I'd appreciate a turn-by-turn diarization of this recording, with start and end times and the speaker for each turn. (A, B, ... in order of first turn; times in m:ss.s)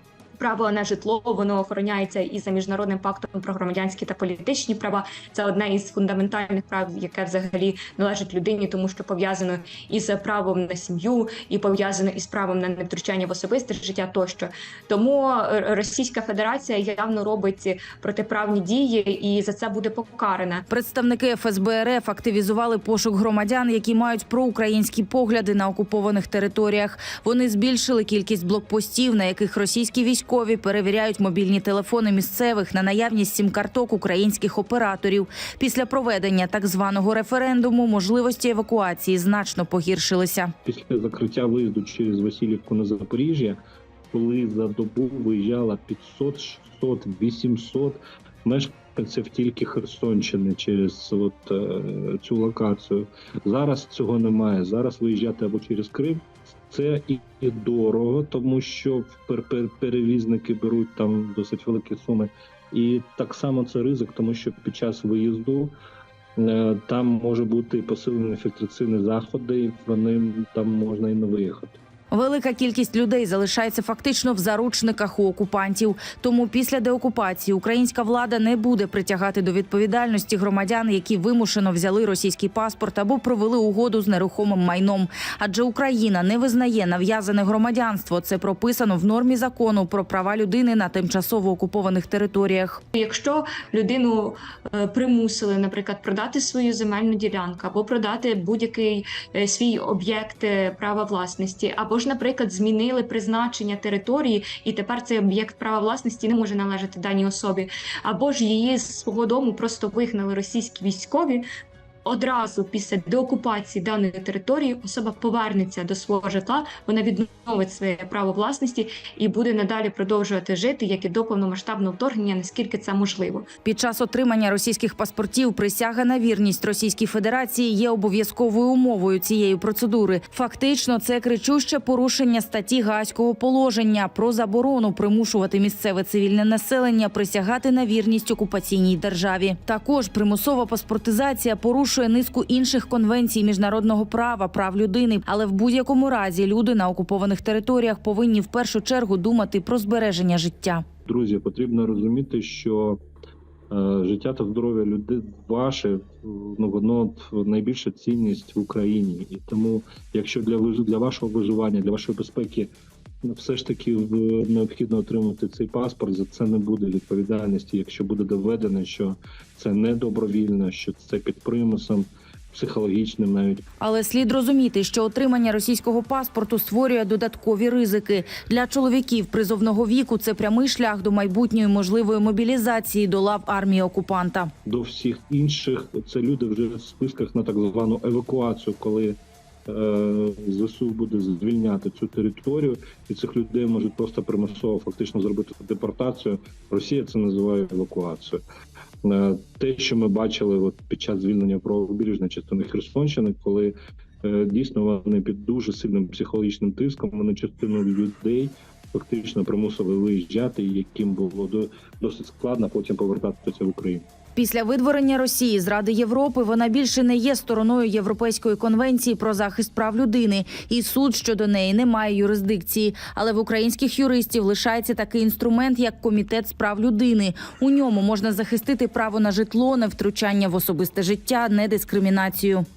0:00.4-0:20.7 A
0:20.7-0:40.5 B
0:40.7-0:43.6 C
0:44.1-1:05.7 C
1:06.4-1:11.8 C
1:12.1-1:32.8 B
1:32.9-1:51.4 A
1:52.0-2:03.5 A
2:03.6-2:30.8 B
2:31.1-2:33.0 C
2:33.7-2:42.7 C
2:43.2-2:53.6 C
2:53.8-3:04.5 B
3:04.7-3:18.4 C
3:19.0-3:34.1 C
3:34.4-3:52.7 B